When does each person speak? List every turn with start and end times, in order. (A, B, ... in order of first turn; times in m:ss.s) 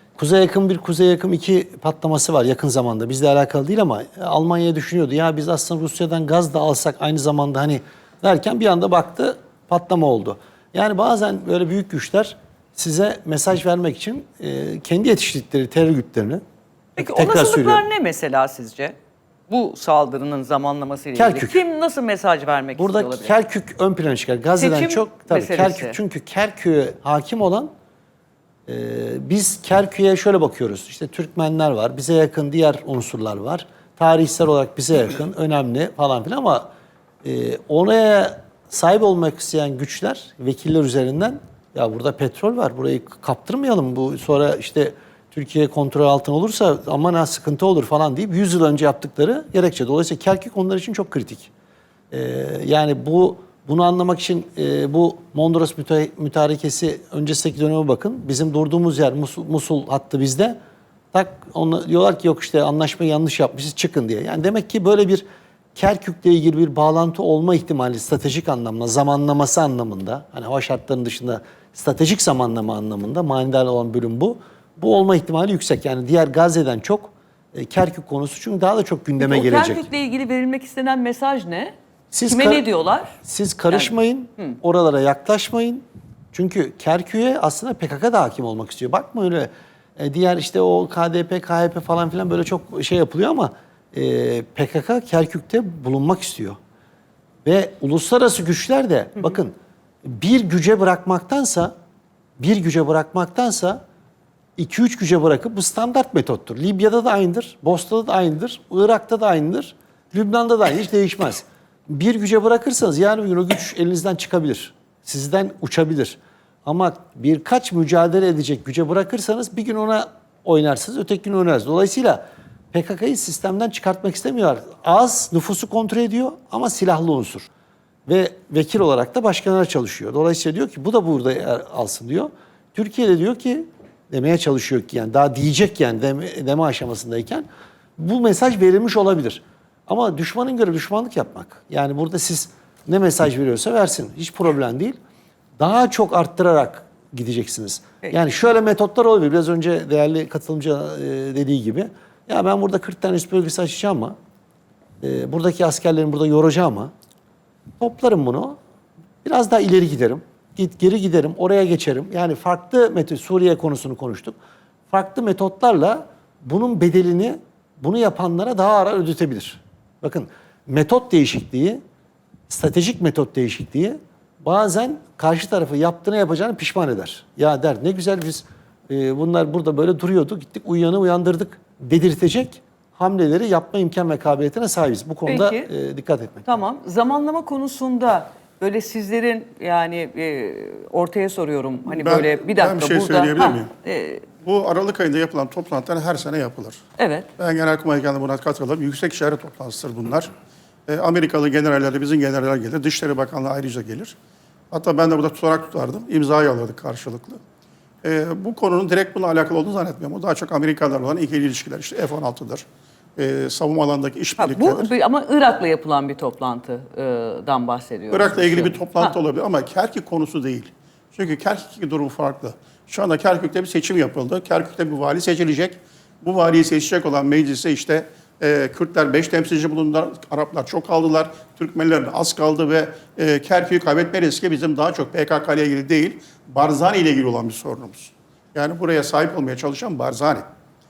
0:00.2-0:16.4 A
0:17.0-0:19.0 B
0:17.0-0:17.8 A
0:19.5-0:23.4 B
0:21.2-0:21.6 A
0:22.8-0:27.7 A
0:24.6-0:26.0 B
0:28.7-0:36.7 A
0:37.2-0:51.5 A
0:52.1-1:00.6 A
1:01.1-1:05.2 A
1:05.8-1:19.9 A
1:19.2-1:21.8 B
1:22.1-1:22.6 A
1:22.3-1:23.1 B
1:23.2-1:36.6 A
1:23.7-1:24.5 B
1:37.4-1:41.7 A
1:42.4-1:43.8 A
1:44.6-2:07.5 A
2:08.1-2:17.5 A
2:18.0-2:25.0 A
2:25.6-2:34.2 A
2:35.0-2:36.9 A
2:37.8-2:38.6 A
2:39.2-2:44.4 A
2:44.9-2:51.8 A
2:52.5-3:06.6 A
3:05.3-3:05.7 B
3:06.5-3:14.3 B
3:11.9-3:13.7 C
3:14.4-3:16.8 C
3:17.0-3:17.3 B
3:17.4-3:20.3 C
3:20.9-3:24.2 C
3:24.7-3:27.4 C
3:28.0-3:32.6 C
3:33.2-3:34.9 C
3:34.4-3:39.1 B
3:38.1-4:00.4 C